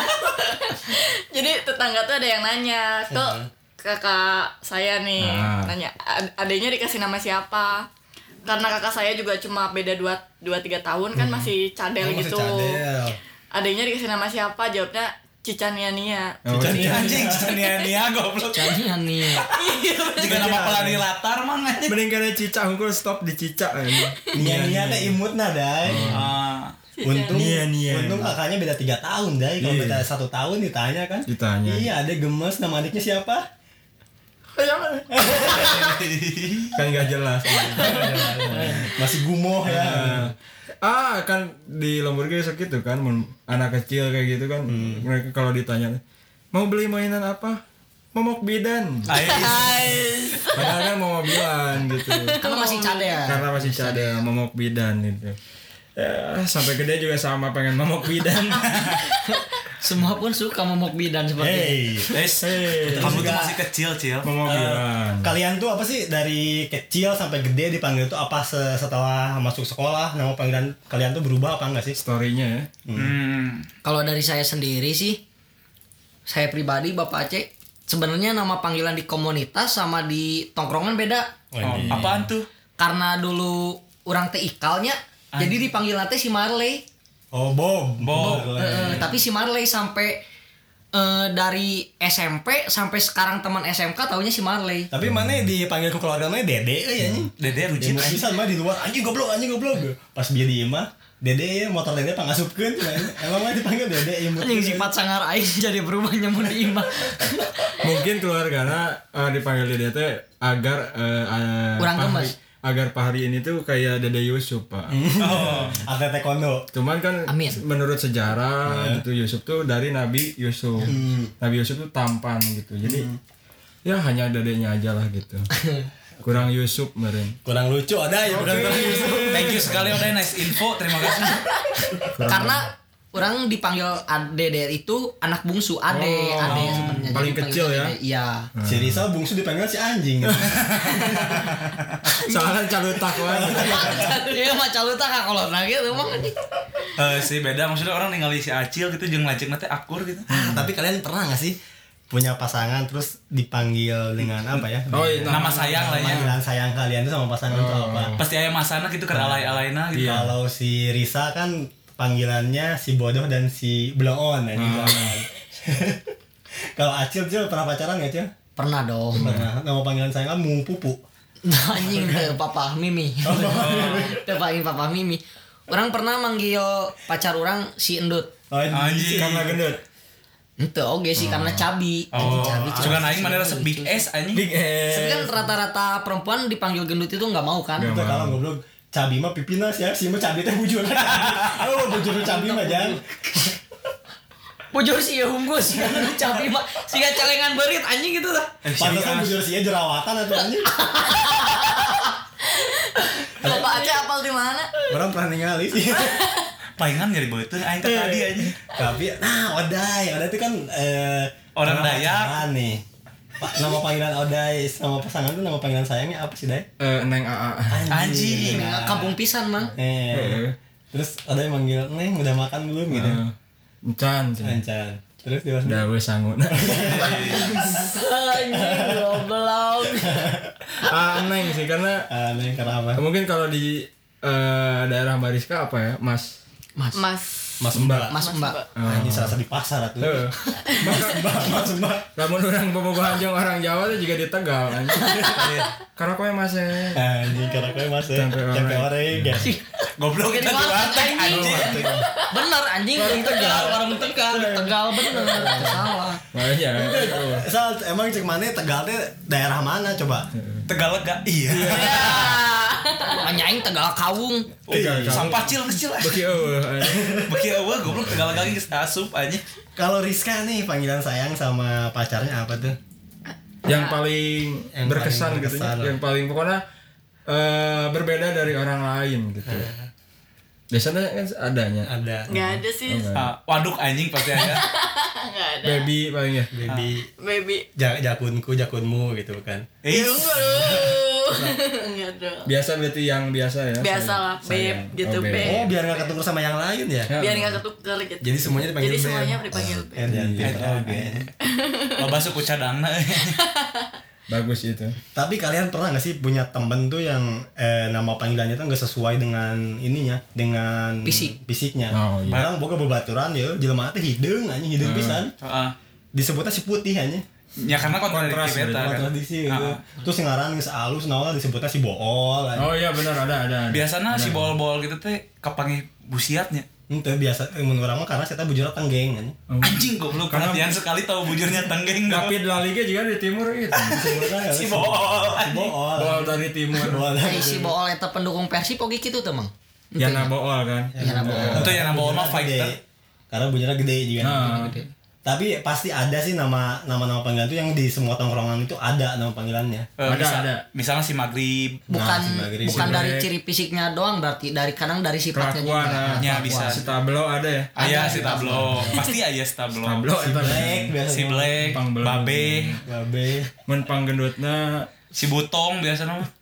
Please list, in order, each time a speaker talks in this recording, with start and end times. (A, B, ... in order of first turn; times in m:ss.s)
0:00.2-0:07.9 A
0:03.1-0:03.5 B
0:05.2-0:05.8 C
0:08.5-0:12.8 A
0:11.1-0:13.2 B
0:13.5-0:16.4 A
0:16.4-0:17.2 C
0:16.5-0:17.6 B
0:16.7-0:19.4 D
0:18.5-0:19.5 E
0:19.5-0:20.7 A
0:20.2-0:22.0 D
0:20.2-0:21.0 C
0:21.9-0:25.2 C
0:24.4-0:26.3 B
0:25.8-0:26.3 C
0:26.1-0:26.7 D
0:27.0-0:27.6 A
0:27.0-0:33.5 B
0:27.3-0:28.3 C
0:29.6-0:30.0 C
0:31.3-0:31.9 C
0:34.5-0:35.1 C
0:35.1-0:35.9 B
0:35.4-0:36.8 D
0:36.8-0:39.0 C
0:37.7-0:40.3 B
0:39.6-0:46.0 C
0:44.7-0:45.0 B
0:46.5-0:47.6 C
0:48.1-0:49.5 C
0:49.1-0:50.1 D
0:49.3-0:50.8 A
0:50.5-0:52.4 C
0:52.1-0:53.2 A
0:52.4-0:54.2 E
0:53.2-0:55.4 C
0:56.0-0:59.0 C
0:58.7-0:59.0 D
0:59.2-1:02.0 E
1:01.4-1:02.2 B
1:02.1-1:04.4 D
1:02.4-1:03.4 C
1:02.8-1:03.5 B
1:04.2-1:05.3 C
1:04.4-1:12.0 B
1:12.0-1:12.7 C
1:12.8-1:13.1 B
1:13.0-1:13.7 D
1:13.8-1:15.2 E
1:16.3-1:21.3 E
1:21.5-1:22.3 B
1:21.6-1:22.5 D
1:21.8-1:22.1 C
1:22.8-1:26.8 E
1:25.3-1:25.6 D
1:27.3-1:29.1 B
1:28.0-1:28.9 D
1:28.2-1:30.2 E
1:30.9-1:34.9 E
1:34.9-1:44.9 B
1:35.0-1:35.4 C
1:37.4-1:38.3 D
1:44.4-1:47.7 E
1:47.8-1:55.8 C
1:51.8-1:52.3 E
1:54.9-1:56.7 B
1:55.2-1:55.8 D
1:56.7-2:03.1 C
1:57.3-1:57.6 E
1:58.7-1:59.0 B
2:00.8-2:01.3 B
2:02.8-2:03.2 B
2:03.8-2:05.5 C
2:06.2-2:07.4 C
2:07.4-2:10.0 B
2:08.3-2:10.2 C
2:09.3-2:11.4 D
2:12.1-2:12.7 C
2:12.2-2:18.5 E
2:15.9-2:18.0 C
2:16.5-2:17.1 D
2:18.6-2:19.0 C
2:18.7-2:21.6 B
2:20.2-2:20.6 C
2:22.1-2:22.5 E
2:22.2-2:24.1 C
2:23.2-2:24.2 B
2:23.6-2:26.4 E
2:27.0-2:30.3 D
2:30.3-2:31.6 B
2:30.3-2:30.7 C
2:32.1-2:38.1 B
2:34.9-2:36.4 C
2:35.3-2:36.3 D
2:37.5-2:38.3 C
2:38.2-2:40.3 D
2:39.1-2:40.3 C
2:40.0-2:46.1 B
2:44.6-2:45.2 C
2:46.6-2:48.3 B
2:48.6-2:49.3 E
2:49.2-2:49.5 C
2:49.2-2:51.0 B
2:51.4-2:58.3 E
2:51.8-2:52.3 B
2:53.2-2:54.2 B
2:58.5-2:59.6 B
2:58.7-2:59.6 D
2:59.2-2:59.8 C
3:00.6-3:04.0 E
3:01.2-3:01.6 C
3:02.1-3:04.5 D
3:02.2-3:03.1 B
3:04.3-3:05.5 C
3:04.9-3:07.9 E
3:07.8-3:08.4 C
3:07.9-3:13.5 B
3:11.0-3:11.6 D
3:12.0-3:13.0 E
3:14.7-3:18.6 E
3:15.8-3:16.1 B
3:18.6-3:19.4 D
3:18.8-3:20.7 B
3:20.8-3:22.0 E
3:22.5-3:24.7 A
3:23.4-3:23.7 B
3:24.9-3:26.3 B
3:26.0-3:26.5 A
3:26.8-3:28.6 D
3:27.8-3:28.4 C
3:28.7-3:32.8 B
3:31.6-3:32.4 D
3:33.4-3:36.7 B
3:36.8-3:38.0 C
3:37.7-3:39.2 B
3:37.9-3:38.6 D
3:38.4-3:39.7 E
3:39.8-3:43.2 B
3:40.1-3:40.6 C
3:42.9-3:43.3 C
3:43.9-3:44.6 C
3:44.4-3:45.9 B
3:45.6-3:47.2 C
3:46.5-3:49.2 B
3:46.8-3:47.6 D
3:47.4-3:50.3 E
3:49.9-3:50.8 B
3:50.8-3:52.1 C
3:52.1-3:53.0 B
3:53.0-3:56.4 C
3:56.8-3:57.0 E
3:56.9-3:58.7 A
3:57.6-3:58.1 B
3:57.7-3:58.1 C
3:58.1-3:58.6 E
3:58.8-3:59.4 C
3:58.8-4:02.1 B
4:00.0-4:01.6 C
4:00.7-4:01.0 A
4:02.2-4:05.3 C
4:05.2-4:05.7 B
4:06.0-4:07.0 C
4:06.9-4:09.5 B
4:08.1-4:09.5 C
4:09.4-4:16.2 E
4:10.0-4:12.0 D
4:11.3-4:12.0 C
4:11.5-4:12.0 B
4:11.8-4:12.3 A
4:12.9-4:17.5 C
4:16.7-4:20.3 B
4:20.4-4:20.7 C
4:20.7-4:22.4 D
4:21.5-4:22.3 C
4:21.6-4:23.3 A
4:23.1-4:24.5 E
4:24.7-4:26.2 D
4:24.7-4:27.3 C
4:24.7-4:25.3 B
4:26.9-4:27.4 B
4:27.2-4:29.4 D
4:27.9-4:28.6 C
4:29.8-4:32.8 B
4:33.6-4:36.6 C
4:34.8-4:36.0 B
4:37.3-4:39.7 C
4:39.5-4:39.9 B
4:40.7-4:43.3 C
4:41.9-4:42.3 B
4:42.3-4:43.1 A
4:43.1-4:44.7 D
4:44.3-4:45.9 A
4:45.6-4:46.5 C
4:46.5-4:47.1 B
4:47.2-4:47.7 A
4:47.8-4:49.7 B
4:49.8-4:50.8 D
4:49.9-4:52.5 A
4:50.4-4:51.6 B
4:52.4-4:55.7 C
4:53.8-4:56.1 A
4:55.4-4:57.1 B
4:57.1-4:57.6 C
4:57.2-5:00.1 A
4:58.2-5:01.3 B
5:00.1-5:00.7 C
5:00.4-5:01.3 D
5:01.5-5:02.3 A
5:02.0-5:03.4 D
5:03.2-5:03.9 A
5:04.3-5:05.0 C
5:05.2-5:15.3 B
5:11.0-5:11.3 E
5:11.9-5:12.5 C
5:14.8-5:15.2 C
5:15.4-5:15.8 D
5:16.1-5:17.2 B
5:17.6-5:19.8 D
5:17.6-5:19.0 C
5:18.8-5:22.7 B
5:22.6-5:24.6 C
5:23.7-5:26.7 D
5:26.9-5:29.4 B
5:29.5-5:30.8 C
5:29.6-5:32.4 D
5:32.1-5:34.4 C
5:33.9-5:37.8 B
5:34.4-5:35.7 D
5:35.9-5:37.1 C
5:37.2-5:40.3 E
5:40.0-5:41.8 C
5:41.0-5:42.8 B
5:41.0-5:41.7 E
5:41.5-5:42.7 D
5:43.3-5:44.5 B
5:44.2-5:44.8 C
5:44.3-5:44.9 E
5:45.2-5:49.9 B
5:50.0-5:51.8 D
5:50.0-5:50.6 C
5:51.9-5:53.1 B
5:51.9-5:56.8 E
5:52.7-5:53.3 C
5:55.3-5:59.0 C
5:56.2-5:56.9 D
5:57.8-5:59.0 E
5:57.8-6:00.0 D
5:59.8-6:01.0 C
6:00.2-6:01.6 B
6:01.0-6:02.8 D
6:01.6-6:02.8 C
6:02.8-6:03.5 B
6:03.7-6:04.9 C
6:05.1-6:06.3 D